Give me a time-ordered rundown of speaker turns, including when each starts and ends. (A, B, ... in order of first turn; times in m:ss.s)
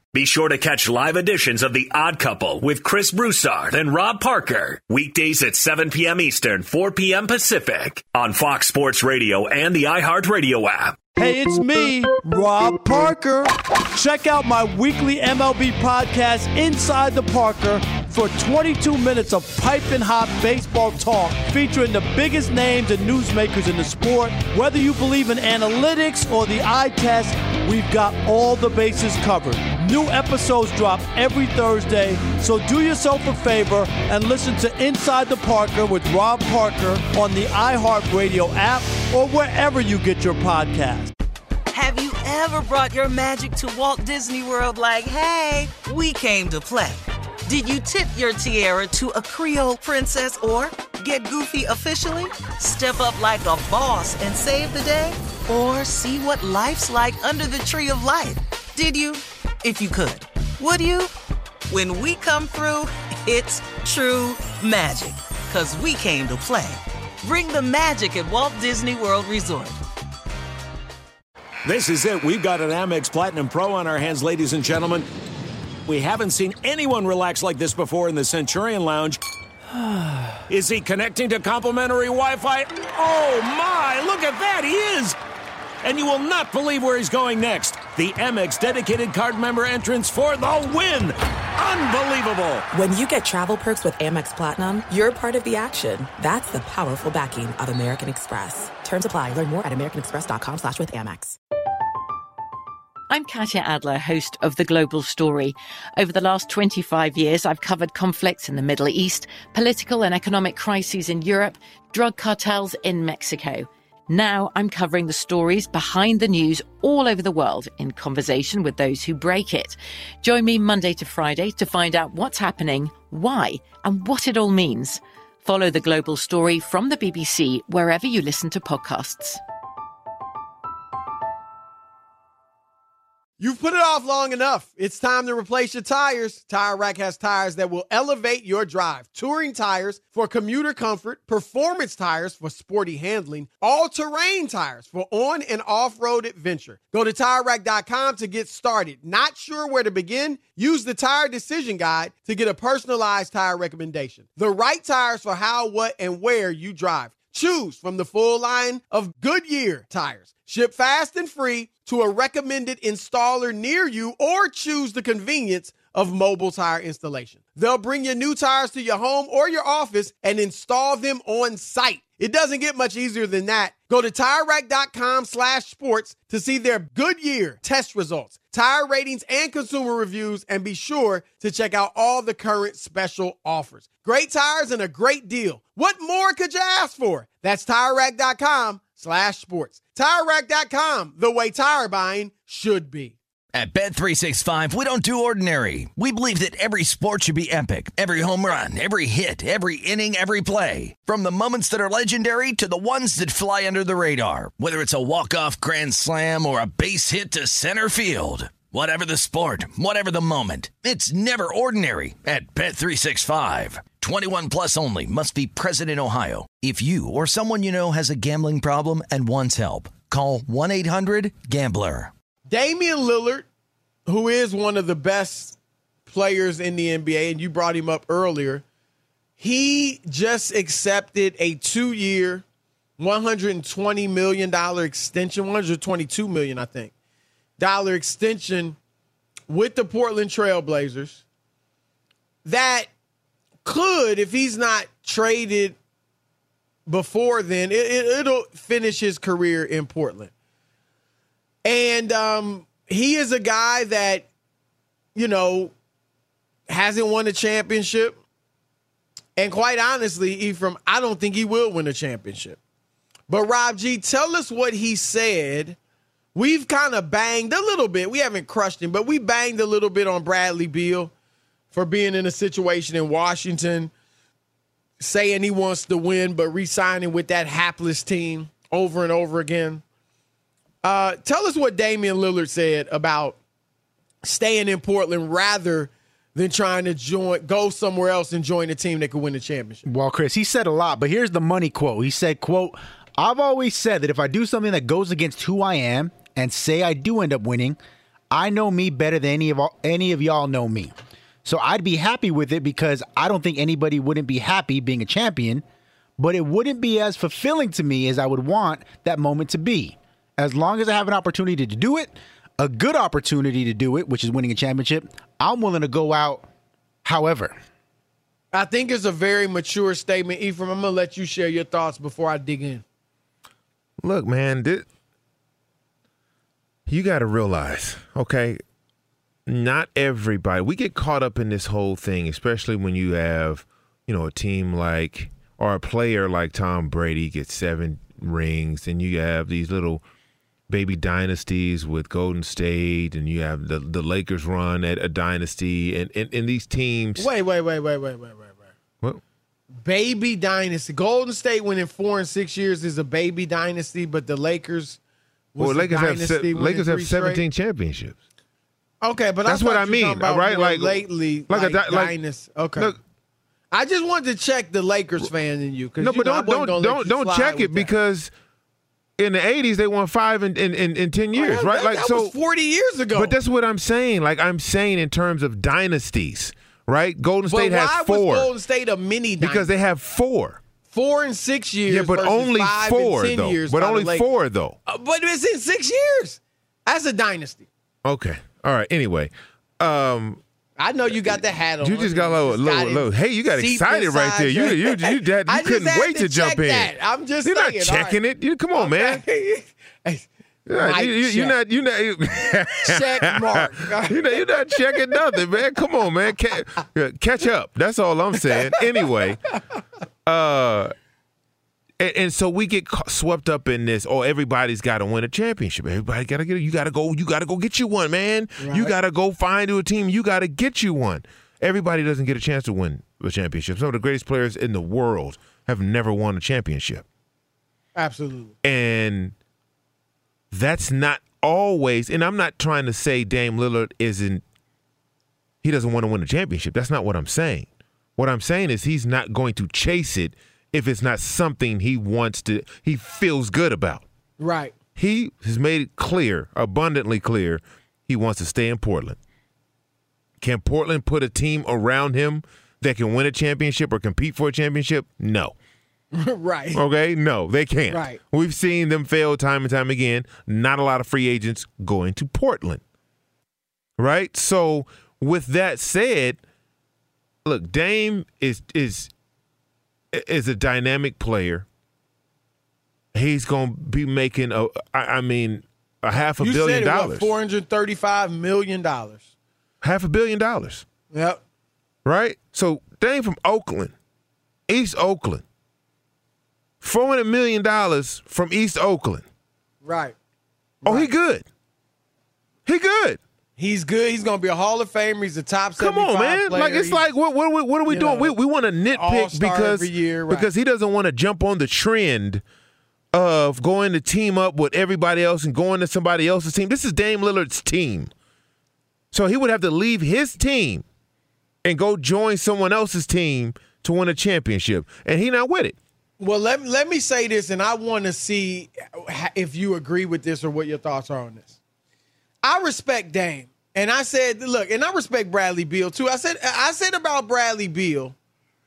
0:00.1-0:10.9 A
0:11.1-0:41.1 B
0:41.7-1:01.1 C
1:01.7-1:09.8 C
1:11.6-1:15.1 D
1:15.9-1:19.2 D
1:20.5-1:25.2 D
1:25.8-1:32.6 D
1:32.7-1:41.4 E
1:43.1-2:09.4 F
2:13.4-3:13.2 G
3:13.5-3:42.1 H
3:42.5-3:43.5 G
3:44.0-3:45.6 G
3:46.1-3:48.6 G
3:49.4-3:52.4 G
3:53.0-3:56.9 G
3:57.6-3:58.8 G
3:59.5-4:01.2 G
4:02.4-4:02.9 G
4:03.6-4:05.8 G
4:06.9-4:10.3 G
4:11.6-4:14.3 G
4:15.1-4:15.7 G
4:16.7-4:18.2 G
4:19.4-4:22.6 G
4:23.3-4:25.8 G
4:26.4-4:31.1 G
4:31.7-4:33.9 G
4:35.0-4:39.8 G
4:40.8-4:43.4 G
4:44.2-4:49.8 G
4:49.8-4:57.8 I
4:58.3-5:00.9 I
5:01.4-5:05.6 I
5:06.2-5:16.5 I
5:17.0-5:17.6 I
5:18.5-5:22.8 G
5:24.0-5:24.9 J
5:26.9-5:28.6 J
5:29.5-5:40.0 J
5:40.7-5:47.3 J
5:47.2-5:48.7 G
5:49.8-5:55.0 G
5:55.6-5:57.4 G
5:55.6-5:58.2 J
5:59.0-6:02.9 G
5:59.5-6:02.1 J
6:03.7-6:07.9 G
6:06.0-6:08.3 J
6:09.2-6:12.3 J
6:11.3-6:13.4 G
6:13.1-6:18.5 J
6:17.5-6:19.7 G
6:19.4-6:20.6 J
6:20.9-6:24.3 G
6:21.9-6:24.8 J
6:24.8-6:27.7 G
6:28.0-6:30.4 J
6:30.8-6:38.2 G
6:31.1-6:39.2 J
6:38.8-6:41.6 G
6:40.7-6:49.4 J
6:42.8-6:45.2 G
6:50.2-6:50.9 J
6:52.0-7:07.0 J
6:58.6-6:59.0 G
7:08.0-7:08.5 G
7:08.6-7:09.3 J
7:10.5-7:14.4 J
7:15.6-7:24.0 J
7:24.4-7:24.7 G
7:25.0-7:29.2 J
7:30.4-7:35.5 J
7:36.1-7:36.8 G
7:36.7-7:42.8 J
7:37.9-7:38.2 G
7:44.0-7:46.4 J
7:47.4-7:49.1 J
7:50.1-7:51.7 J
7:53.1-7:57.3 J
7:56.4-7:59.2 G
7:59.8-8:00.8 J
8:01.1-8:01.4 G
8:02.0-8:03.9 J
8:04.7-8:05.4 J
8:06.8-8:09.2 J
8:09.8-8:10.1 G
8:10.8-8:11.1 G
8:10.8-8:11.4 J
8:12.7-8:13.2 J
8:13.6-8:17.0 G
8:15.8-8:22.4 J
8:17.9-8:18.4 G
8:18.9-8:20.5 G
8:23.1-8:28.1 J
8:29.1-8:30.8 J
8:31.6-8:35.8 J
8:36.2-8:41.5 G
8:42.4-8:48.1 G